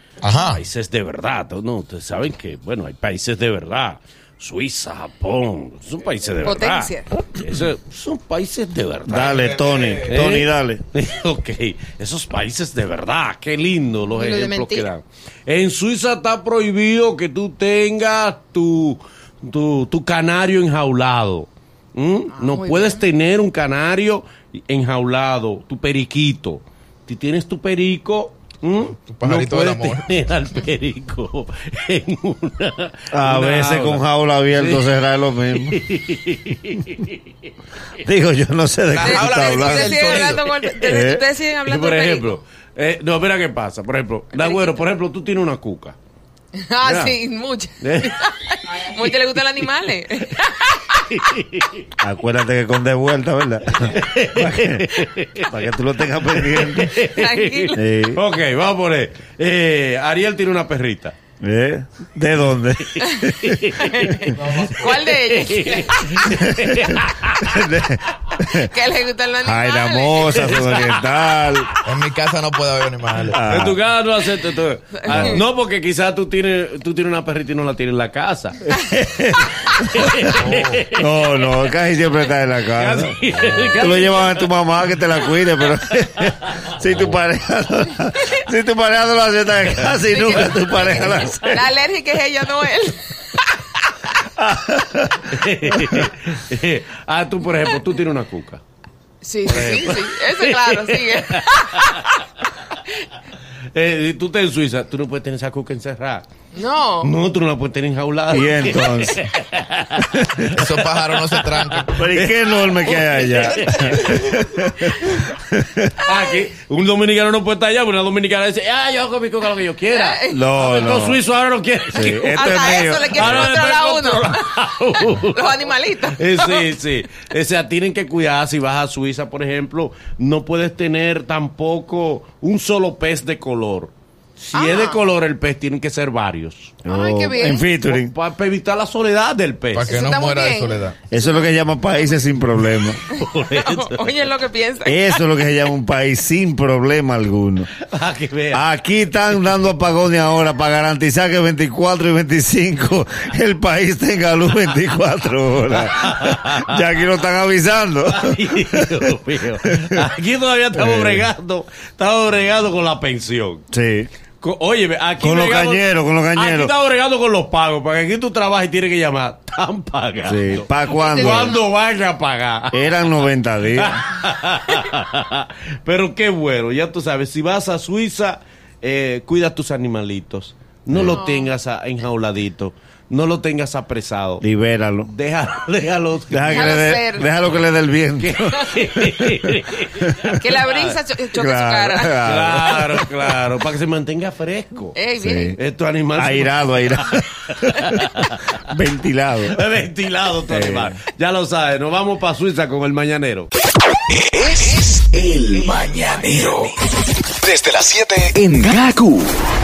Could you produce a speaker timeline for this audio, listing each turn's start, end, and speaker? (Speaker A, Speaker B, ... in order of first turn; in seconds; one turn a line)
Speaker A: 0.2-0.6
Speaker B: 0.3-9.5
Speaker C: 6.4-7.1
Speaker D: 9.1-10.8
Speaker A: 9.6-9.9
Speaker B: 10.0-34.9
Speaker C: 14.1-14.9
Speaker C: 22.3-23.0
Speaker A: 29.1-30.1
Speaker D: 33.1-35.8
Speaker B: 35.5-37.2
Speaker D: 38.0-41.2
Speaker A: 38.9-40.5
Speaker C: 39.0-42.4
Speaker B: 41.6-46.0
Speaker C: 44.3-44.8
Speaker C: 46.5-51.0
Speaker B: 46.8-47.2
Speaker B: 47.8-48.2
Speaker B: 48.7-49.0
Speaker B: 50.9-51.9
Speaker D: 52.0-57.0
Speaker B: 53.8-55.5
Speaker B: 56.1-61.1
Speaker C: 56.9-57.9
Speaker D: 57.7-58.2
Speaker D: 61.4-64.3
Speaker B: 63.1-67.6
Speaker C: 63.8-66.4
Speaker A: 64.3-64.8
Speaker D: 66.4-68.7
Speaker C: 68.5-71.1
Speaker D: 69.4-71.7
Speaker B: 70.4-70.9
Speaker A: 71.8-73.4
Speaker D: 73.3-73.8
Speaker B: 73.3-78.7
Speaker C: 75.0-75.4
Speaker D: 75.1-75.4
Speaker D: 78.7-80.1
Speaker B: 79.5-81.4
Speaker A: 80.4-80.8
Speaker D: 81.0-83.2
Speaker B: 82.7-84.5
Speaker D: 83.7-91.7
Speaker B: 85.2-87.1
Speaker C: 90.1-93.6
Speaker D: 94.3-96.1
Speaker B: 95.2-98.6
Speaker C: 99.2-102.2
Speaker B: 99.4-102.2
Speaker B: 103.5-106.2
Speaker C: 106.5-107.1
Speaker B: 107.0-114.4
Speaker D: 108.3-109.3
Speaker D: 110.0-110.6
Speaker A: 110.5-112.0
Speaker D: 111.9-115.9
Speaker B: 116.0-136.8
Speaker C: 119.9-120.5
Speaker D: 120.3-121.2
Speaker D: 121.9-123.5
Speaker C: 122.2-126.7
Speaker C: 134.5-135.0
Speaker C: 136.8-137.7
Speaker D: 136.8-138.1
Speaker B: 137.8-139.9
Speaker A: 139.7-140.9
Speaker C: 139.8-141.5
Speaker D: 141.1-143.0
Speaker B: 143.1-144.3
Speaker C: 143.1-145.2
Speaker D: 144.8-147.7
Speaker B: 147.8-148.6
Speaker D: 148.5-159.1
Speaker B: 155.7-156.9
Speaker B: 158.1-163.6
Speaker D: 159.6-160.0
Speaker D: 160.7-161.3
Speaker D: 163.7-164.1
Speaker B: 164.4-173.0
Speaker D: 165.2-166.7
Speaker D: 170.2-171.6
Speaker C: 170.9-171.6
Speaker D: 172.7-174.0
Speaker B: 173.7-184.4
Speaker D: 180.9-181.2
Speaker C: 181.0-181.5
Speaker D: 184.4-185.1
Speaker B: 185.1-187.6
Speaker D: 186.3-190.5
Speaker C: 186.5-187.3
Speaker B: 188.2-190.9
Speaker C: 190.3-192.2
Speaker D: 191.3-193.3
Speaker B: 192.2-195.0
Speaker C: 194.9-195.6
Speaker D: 195.2-195.6
Speaker B: 195.6-196.8
Speaker D: 196.1-199.6
Speaker B: 197.7-198.4
Speaker B: 199.5-203.5
Speaker D: 200.5-201.0
Speaker E: 204.1-206.7
Speaker E: 207.4-209.3